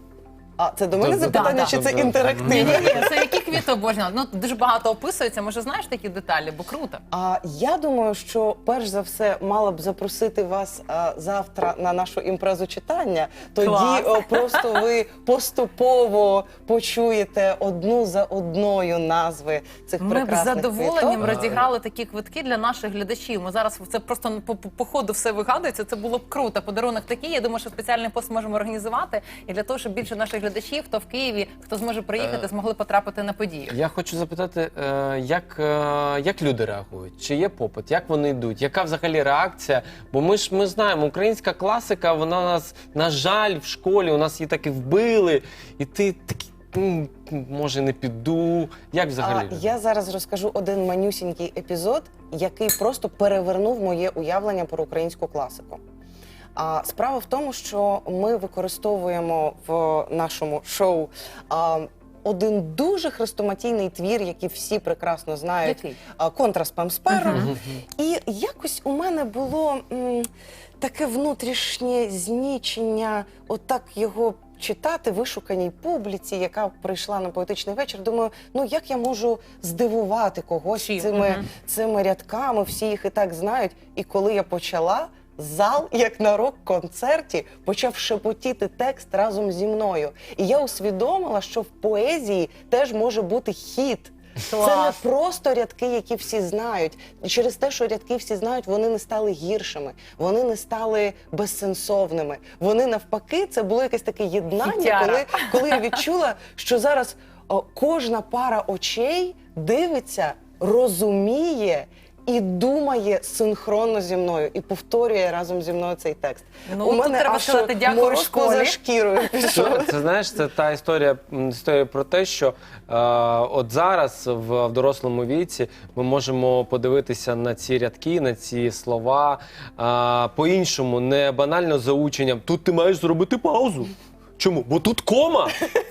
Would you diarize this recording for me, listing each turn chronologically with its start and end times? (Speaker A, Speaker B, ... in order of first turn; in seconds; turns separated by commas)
Speaker A: 0.6-3.2, Speaker B: 1.0-3.1, Speaker C: 1.2-1.8, Speaker C: 2.4-7.0, Speaker A: 7.1-21.6, Speaker C: 13.6-14.7, Speaker C: 20.0-33.7, Speaker B: 21.2-21.6, Speaker B: 32.2-32.5, Speaker B: 33.7-49.6, Speaker A: 49.2-55.8, Speaker A: 56.5-70.3, Speaker C: 65.6-66.0, Speaker C: 67.1-67.5, Speaker A: 70.8-119.9, Speaker C: 80.7-81.4, Speaker C: 94.5-95.0, Speaker C: 104.6-105.9, Speaker C: 116.7-118.8, Speaker B: 119.5-135.6